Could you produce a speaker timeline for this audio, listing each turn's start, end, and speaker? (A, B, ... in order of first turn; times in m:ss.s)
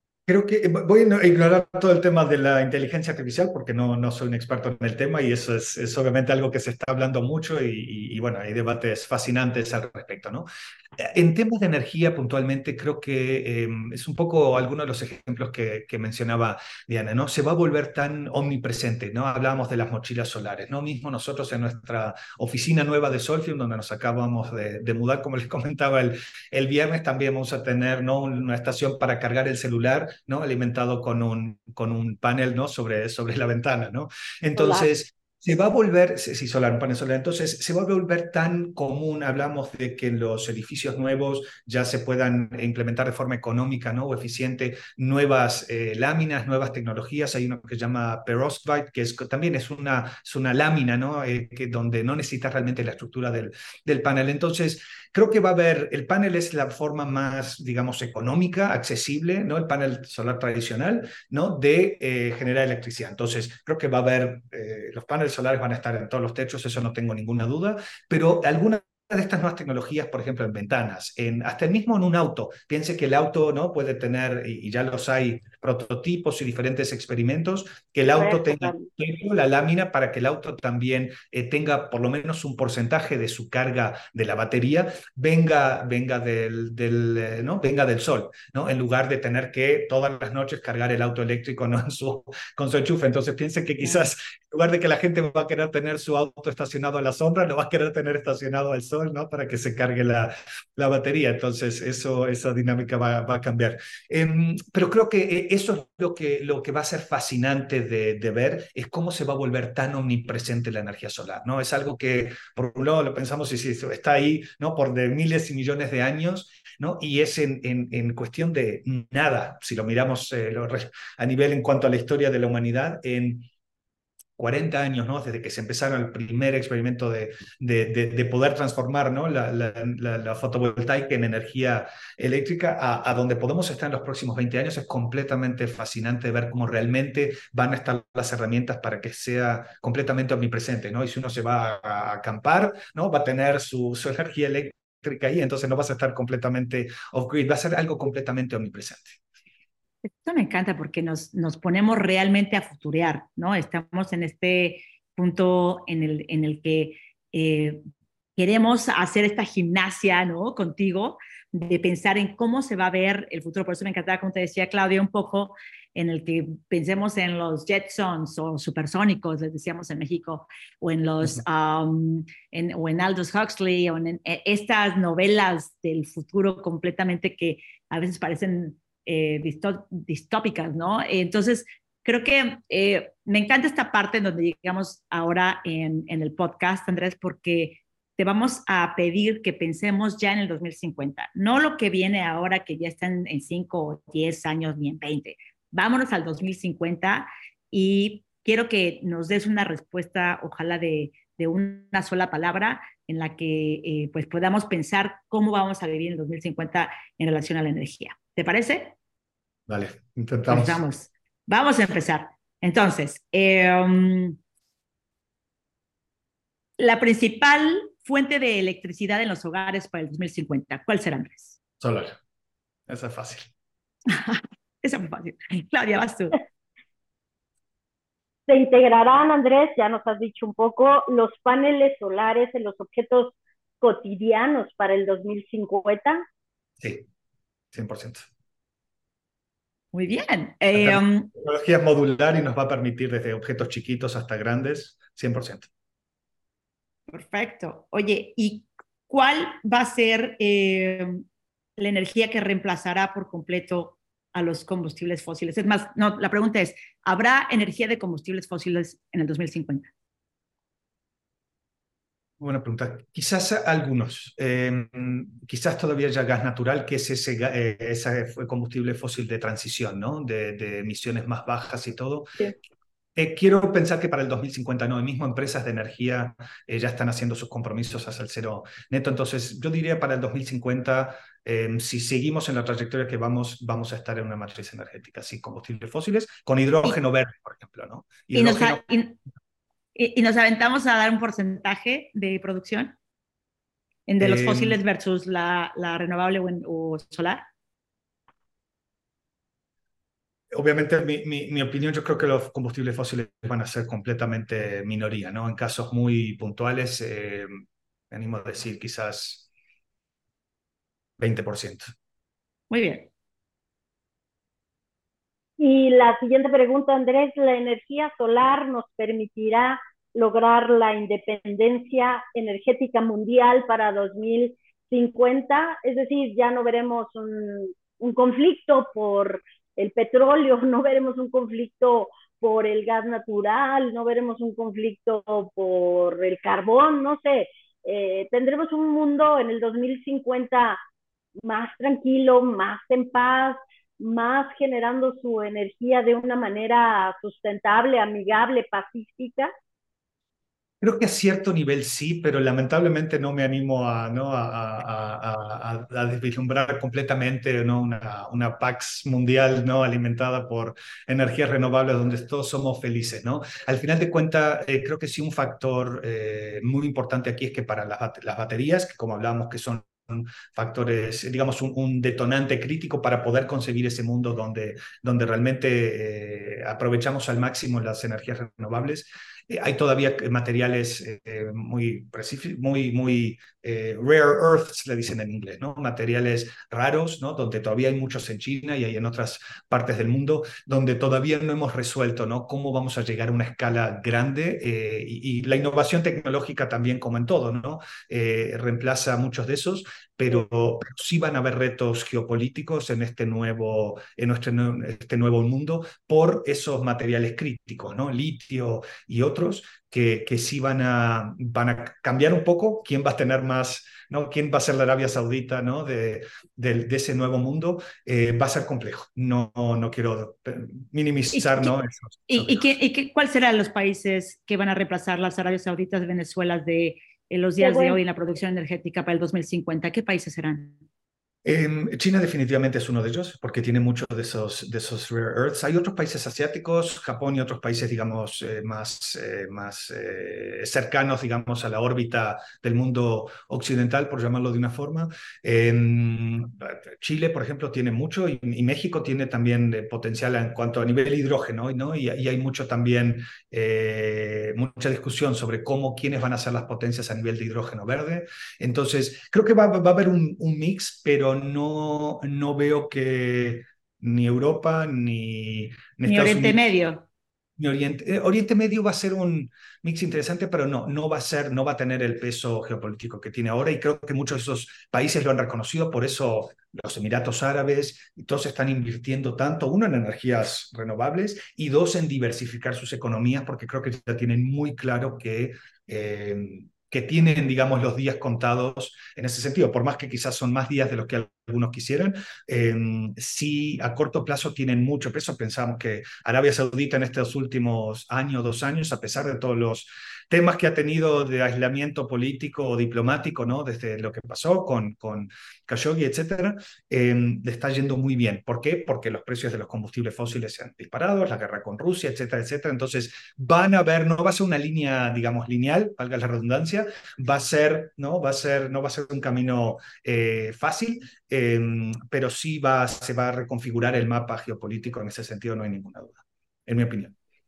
0:00.3-2:03.4 A
0:34.6-0:34.9 B
1:18.2-1:18.9 B
2:04.4-2:29.2 A
2:30.0-2:37.8 C
2:38.4-3:28.9 C
3:29.7-3:30.8 A
3:30.5-3:34.4 C
3:36.8-3:41.6 C
3:41.8-3:42.2 A
3:42.9-3:43.5 A
3:44.1-3:46.4 C
3:48.5-3:56.2 B
3:56.8-3:57.1 A
3:57.7-3:58.3 A
3:59.9-4:01.3 C
4:00.7-4:05.7 A
4:07.1-4:11.2 C
4:11.8-4:19.9 C
4:22.4-4:32.5 A
4:33.2-4:48.8 A
4:48.3-4:49.2 C
4:49.9-4:52.9 C
4:54.1-4:57.4 C
4:54.2-4:54.8 A
5:00.5-5:09.4 A
5:11.2-5:11.9 A
5:12.7-5:13.1 C
5:15.6-5:40.8 B
5:41.4-5:49.5 B
5:50.8-7:02.7 A
7:01.3-7:01.7 C
7:02.3-7:10.8 C
7:07.6-7:08.0 B
7:11.4-7:46.7 A
7:46.0-7:47.0 C
7:47.6-8:47.1 A